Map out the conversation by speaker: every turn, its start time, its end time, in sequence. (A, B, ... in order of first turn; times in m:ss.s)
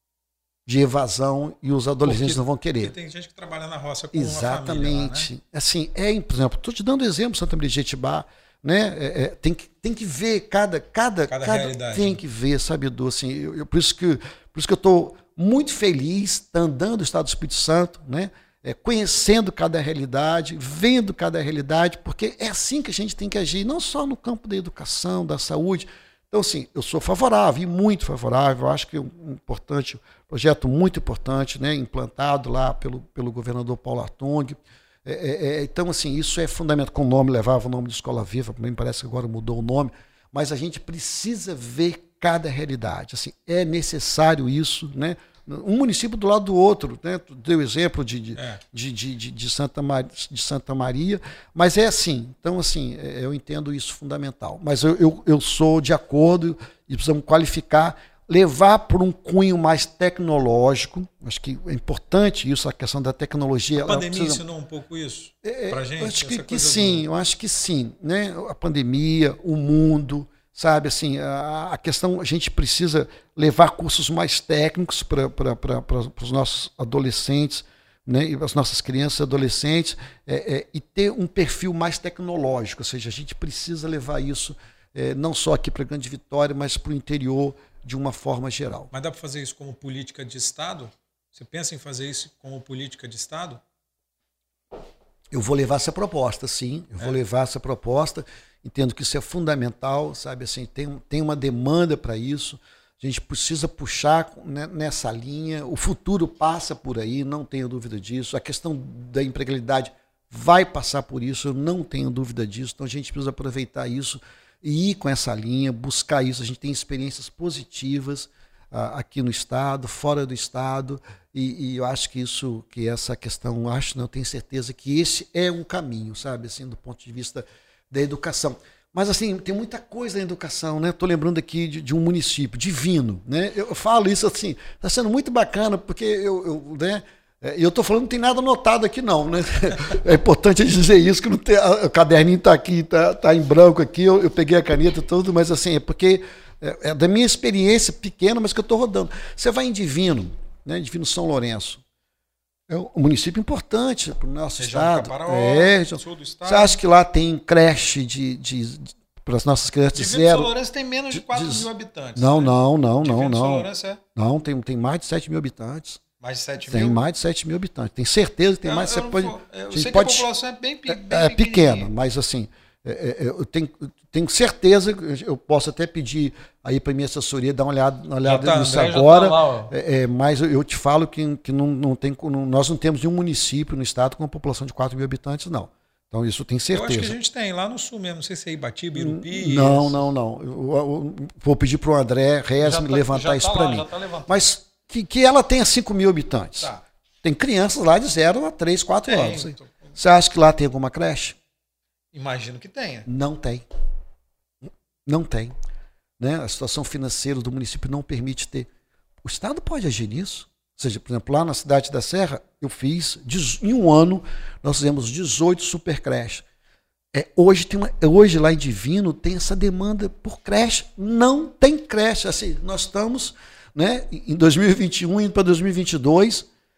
0:00.7-0:02.9 A
0:02.0-0:05.3 B
0:04.1-1:04.4 A
0:11.3-0:12.2 B
0:48.4-0:48.6 B
1:03.8-1:07.0 B
1:05.4-1:28.9 A
1:28.9-1:33.6 B
1:35.3-2:31.8 A
2:32.7-2:40.5 A
2:34.6-2:36.8 B
2:39.9-2:44.0 B
2:41.1-2:46.0 A
2:46.2-2:47.0 B
2:46.6-2:50.3 A
2:48.6-2:51.9 B
2:50.9-3:07.1 A
2:58.2-2:59.7 B
3:06.7-3:10.1 B
3:09.0-3:16.7 A
3:12.6-3:14.5 B
3:17.2-3:21.4 A
3:19.0-3:19.9 B
3:22.1-3:23.1 B
3:23.0-3:23.6 A
3:25.0-3:25.5 A
3:26.2-3:28.7 A
3:29.2-3:36.4 A
3:37.1-3:46.5 A